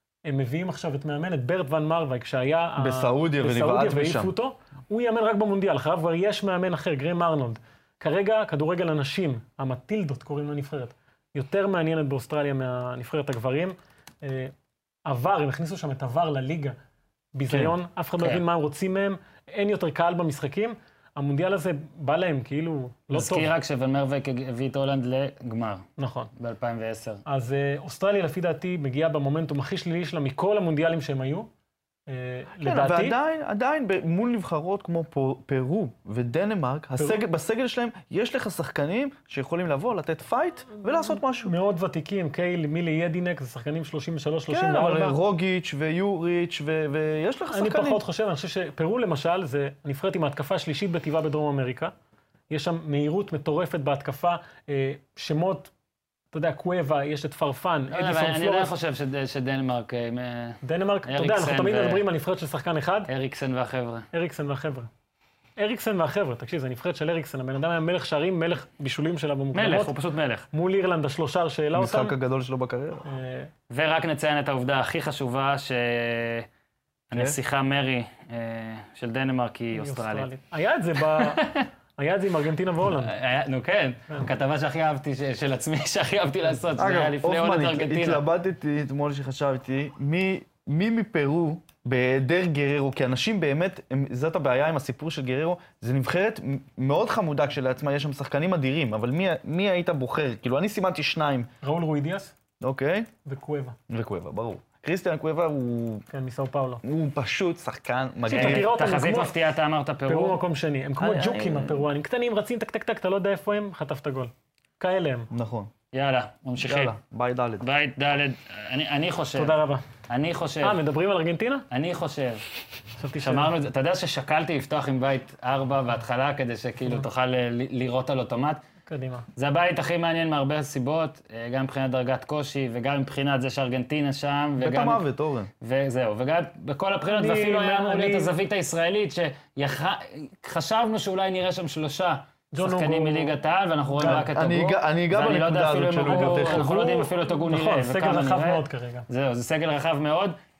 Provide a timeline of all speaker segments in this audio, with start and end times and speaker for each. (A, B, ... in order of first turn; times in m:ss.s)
0:00.2-0:14.5 A
0:02.8-0:04.3 B
0:15.0-0:16.8 A
0:17.3-0:23.5 A
0:23.1-0:27.2 C
0:26.0-0:26.3 A
0:27.2-0:31.5 A
0:32.1-0:33.2 A
0:32.6-0:41.5 B
0:41.4-0:45.2 A
0:44.5-0:48.0 B
0:47.5-0:51.9 A
0:52.5-0:55.7 A
0:56.3-0:58.7 A
0:57.9-1:02.0 C
1:00.6-1:03.1 A
1:03.1-1:04.0 C
1:04.1-1:04.9 A
1:05.6-1:09.9 A
1:09.5-1:10.5 C
1:10.5-1:12.1 A
1:11.7-1:13.0 B
1:13.0-1:13.5 A
1:13.7-1:16.5 C
1:17.1-1:20.3 C
1:19.7-1:23.1 A
1:21.1-1:21.7 C
1:22.9-1:28.2 C
1:26.8-1:41.5 B
1:41.6-1:42.3 A
1:42.6-1:43.1 B
1:43.2-1:43.8 A
1:43.9-1:46.0 B
1:46.1-1:46.8 A
1:46.8-1:48.7 B
1:48.2-1:49.3 A
1:48.3-1:50.4 C
1:50.1-1:55.3 A
1:51.0-1:51.8 B
1:55.3-1:55.7 B
1:55.9-1:56.9 C
1:56.6-1:57.6 B
1:57.6-1:59.5 C
1:59.3-1:59.8 A
2:00.1-2:00.8 C
2:00.6-2:01.6 A
2:01.7-2:02.4 C
2:03.0-2:03.5 A
2:03.2-2:08.6 C
2:08.9-2:09.2 A
2:09.4-2:15.0 C
2:14.6-2:15.5 B
2:15.6-2:30.4 C
2:17.0-2:18.3 A
2:22.5-2:23.4 A
2:23.9-2:24.3 A
2:24.0-2:26.7 B
2:26.0-2:29.0 A